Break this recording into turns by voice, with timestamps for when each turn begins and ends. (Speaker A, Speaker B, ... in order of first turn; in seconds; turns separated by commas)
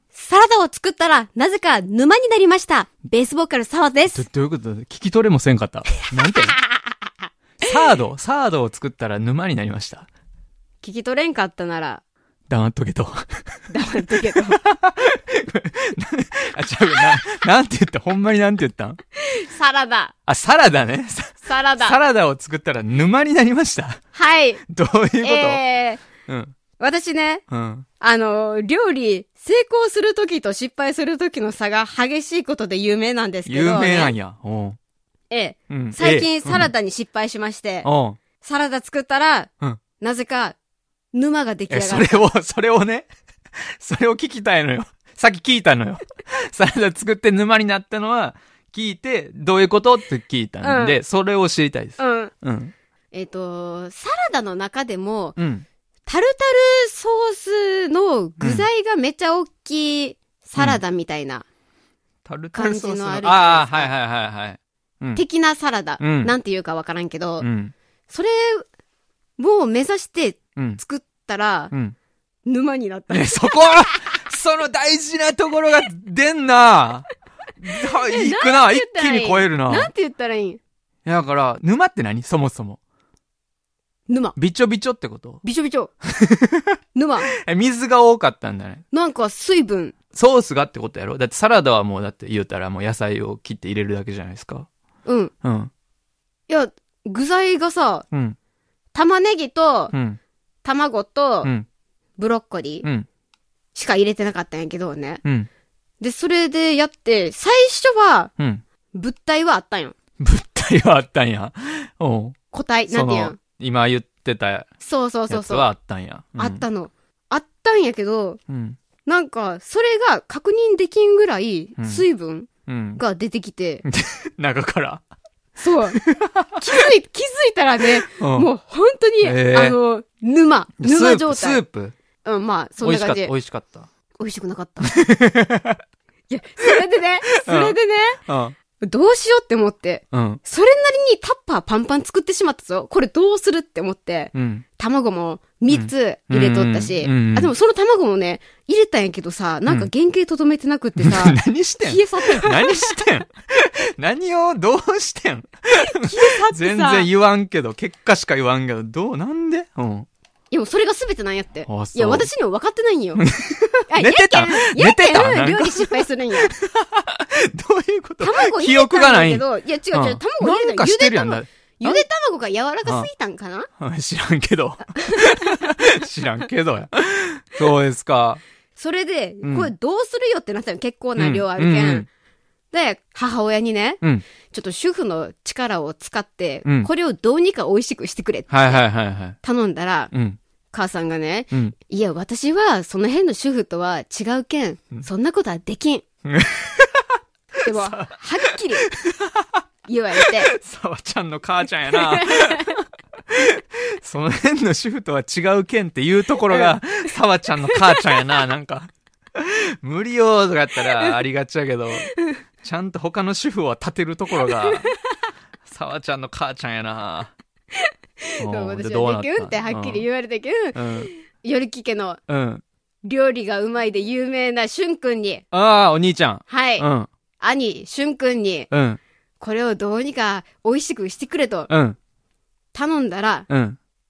Speaker A: 0.1-4.2, Speaker B: 4.1-6.6, Speaker B: 7.6-10.1, Speaker A: 10.8-12.0, Speaker B: 12.5-13.6, Speaker A: 13.7-14.6, Speaker B: 14.6-19.0, Speaker A: 19.3-20.1, Speaker B: 20.3-24.0, Speaker A: 21.4-22.0, Speaker A: 24.1-24.6, Speaker B: 24.7-25.6, Speaker A: 25.2-26.1, Speaker B: 26.2-26.6, Speaker A: 26.8-27.4, Speaker B: 27.5-27.9, Speaker A: 28.0-34.1, Speaker B: 33.5-34.8, Speaker A: 35.3-37.9, Speaker B: 35.7-36.7, Speaker B: 37.8-38.2, Speaker A: 38.4-40.6, Speaker A: 41.1-42.2, Speaker B: 41.7-43.1, Speaker B: 43.7-52.7, Speaker A: 50.6-51.0, Speaker A: 52.0-52.3, Speaker A: 53.1-55.4, Speaker B: 55.4-55.6, Speaker A: 56.1-61.5, Speaker B: 58.4-58.7, Speaker B: 62.2-65.2, Speaker A: 62.5-63.9, Speaker A: 65.2-67.5, Speaker B: 66.0-66.3, Speaker B: 67.4-67.7, Speaker A: 68.1-68.7, Speaker A: 69.4-71.7, Speaker B: 70.6-70.8, Speaker A: 72.5-74.0, Speaker B: 73.1-79.9, Speaker A: 78.1-80.6, Speaker B: 81.0-82.8, Speaker A: 84.1-84.4, Speaker B: 84.4-85.4, Speaker A: 85.4-85.9, Speaker B: 86.1-86.6, Speaker A: 87.0-87.3, Speaker B: 87.4-88.8, Speaker A: 88.9-90.0, Speaker B: 90.1-94.7, Speaker A: 95.0-95.3, Speaker B: 95.4-95.7, Speaker A: 96.5-98.0, Speaker B: 98.1-98.4, Speaker A: 98.9-99.9, Speaker B: 99.9-100.2, Speaker A: 100.7-101.5, Speaker A: 102.2-102.9, Speaker B: 102.8-103.1, Speaker A: 103.8-105.2, Speaker B: 105.2-105.5, Speaker A: 106.0-108.3, Speaker A: 108.9-110.0, Speaker B: 110.2-112.3, Speaker A: 112.5-113.4, Speaker B: 112.9-114.7, Speaker A: 114.8-115.7, Speaker B: 115.3-116.6, Speaker A: 116.4-118.4, Speaker B: 118.5-118.8, Speaker A: 119.1-123.8, Speaker B: 122.7-123.0, Speaker B: 123.8-125.0, Speaker A: 125.6-126.0, Speaker B: 125.9-126.6, Speaker A: 126.6-131.6, Speaker B: 128.2-128.5, Speaker B: 129.2-129.8, Speaker B: 130.8-131.9, Speaker A: 132.2-133.3, Speaker B: 132.8-133.9, Speaker A: 134.2-134.9, Speaker B: 134.9-135.8, Speaker A: 136.3-138.2, Speaker B: 137.4-138.6, Speaker A: 138.8-152.9, Speaker B: 140.1-140.4, Speaker B: 144.3-144.6, Speaker B: 145.7-147.5, Speaker B: 151.0-160.1, Speaker A: 155.8-157.1, Speaker A: 160.5-163.2, Speaker B: 161.7-162.3, Speaker B: 163.2-172.1, Speaker A: 163.9-166.5, Speaker A: 168.2-173.7, Speaker B: 173.8-178.4, Speaker A: 178.8-182.1, Speaker B: 179.4-179.7, Speaker B: 181.2-182.1, Speaker A: 182.7-188.8, Speaker B: 188.5-189.4, Speaker A: 189.4-190.1, Speaker B: 190.1-190.4, Speaker A: 190.7-196.1, Speaker B: 196.2-197.0, Speaker A: 197.7-198.9, Speaker B: 197.7-198.1, Speaker B: 198.8-199.5, Speaker A: 199.9-200.5, Speaker B: 200.5-214.9, Speaker A: 201.9-202.7, Speaker A: 207.7-208.2, Speaker B: 215.7-217.3, Speaker A: 217.9-222.2, Speaker B: 218.4-220.0, Speaker B: 220.7-221.1, Speaker B: 222.3-222.6, Speaker A: 223.0-225.4, Speaker B: 225.5-227.1, Speaker A: 226.5-226.9, Speaker A: 227.4-228.7, Speaker B: 228.7-229.0, Speaker A: 229.4-231.7, Speaker B: 231.7-232.0, Speaker A: 232.7-233.5, Speaker B: 233.5-233.8